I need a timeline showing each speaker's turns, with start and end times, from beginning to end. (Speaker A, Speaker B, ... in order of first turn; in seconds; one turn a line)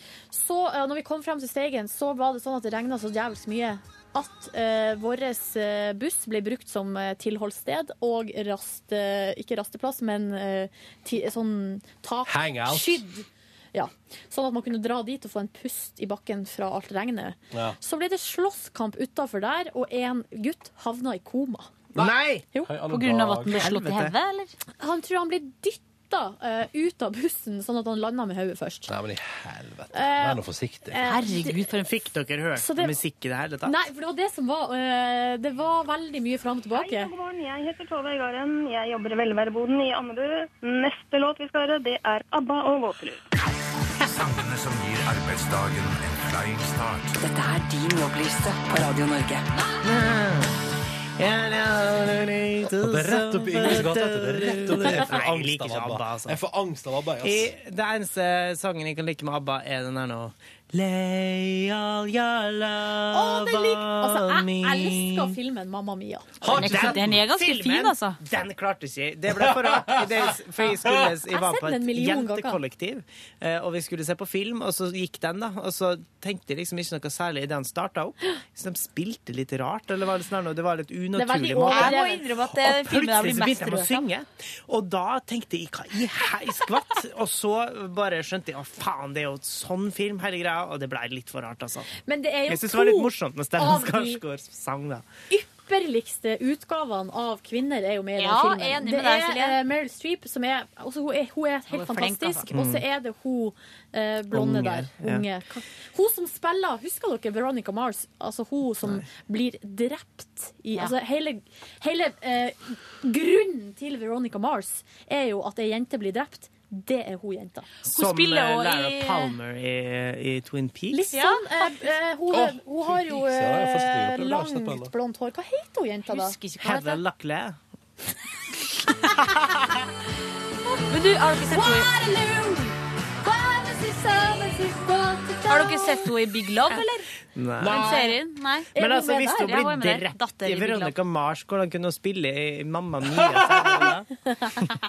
Speaker A: 0.3-21.7
Speaker B: 12.3-13.0
Speaker C: 21.9-22.4
Speaker B: 21.9-23.7
Speaker D: 22.9-24.5
Speaker C: 23.5-24.2
Speaker A: 24.8-28.9
Speaker B: 28.9-31.0
Speaker A: 29.9-30.4
Speaker A: 30.9-31.6
Speaker D: 31.0-31.9
Speaker C: 31.4-33.8
Speaker A: 32.6-33.0
Speaker A: 33.6-37.1
Speaker E: 36.7-43.2
Speaker F: 44.0-47.2
Speaker G: 47.2-49.5
Speaker C: 49.8-50.6
Speaker C: 51.2-56.4
Speaker B: 52.8-57.5
Speaker C: 57.2-65.4
Speaker A: 63.1-66.4
Speaker B: 66.4-67.2
Speaker D: 66.5-68.2
Speaker C: 66.5-91.9
Speaker B: 69.4-70.0
Speaker A: 71.3-72.6
Speaker A: 81.2-82.3
Speaker D: 81.7-84.1
Speaker A: 92.0-94.2
Speaker C: 92.5-95.0
Speaker A: 95.3-117.7
Speaker D: 98.2-99.6
Speaker D: 101.7-102.5
Speaker C: 102.5-102.8
Speaker C: 104.3-105.2
Speaker D: 117.8-119.4
Speaker C: 117.9-121.1
Speaker A: 120.9-126.4
Speaker D: 121.1-121.8
Speaker B: 122.3-124.9
Speaker D: 126.1-127.0
Speaker C: 126.6-127.6
Speaker D: 130.9-131.9
Speaker A: 131.5-136.1
Speaker D: 135.5-137.1
Speaker C: 137.3-137.9
Speaker B: 137.6-138.0
Speaker D: 137.6-141.0
Speaker A: 137.7-138.1
Speaker A: 138.8-139.7
Speaker C: 138.8-144.1
Speaker B: 143.1-143.9